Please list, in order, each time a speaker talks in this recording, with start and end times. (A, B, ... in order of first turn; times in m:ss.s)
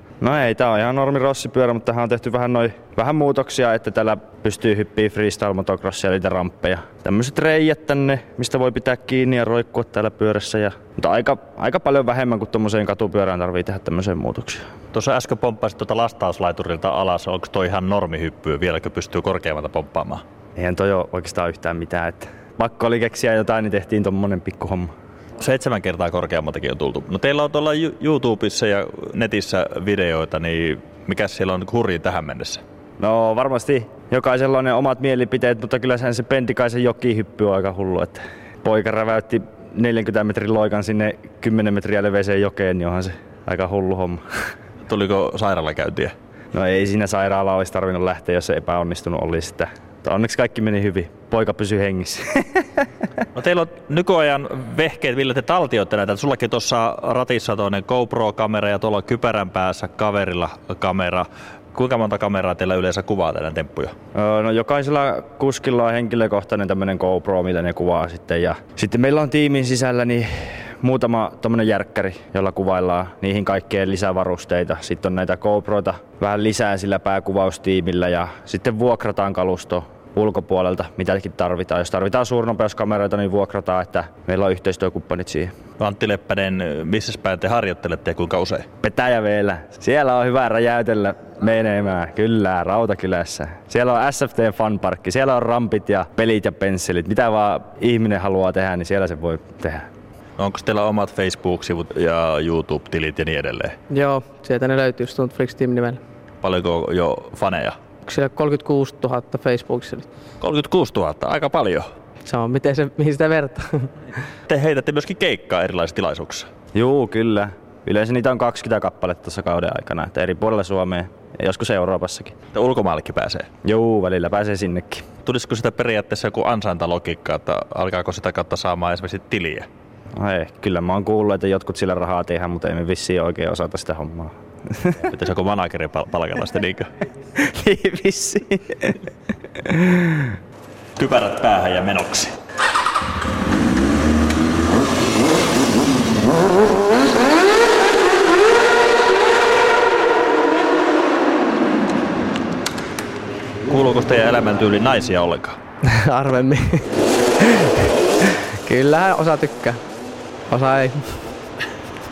0:00.2-0:14.6 A
0:14.9-0:20.2 B
0:20.6-0:24.9 A
0:25.4-0:32.6 B
0:33.0-0:44.2 A
0:44.9-0:46.1 B
0:46.5-0:52.7 A
0:53.4-1:03.9 B
1:04.2-1:25.5 A
1:25.8-1:28.7 B
1:28.8-1:39.9 A
1:40.4-1:43.8 B
1:43.9-1:46.0 C
1:46.4-1:47.8 B
1:48.0-1:50.1 C
1:50.4-1:51.9 B
1:52.2-1:53.9 C
1:54.5-1:56.5 B
1:56.7-2:02.3 A
2:02.5-2:03.5 B
2:03.6-2:05.1 A
2:05.2-2:09.7 B
2:10.2-2:15.0 A
2:15.1-2:16.9 B
2:17.4-2:19.0 A
2:19.6-2:20.2 A
2:21.0-2:22.4 B
2:33.7-2:35.6 B
2:35.8-2:39.8 C
2:40.5-2:41.1 C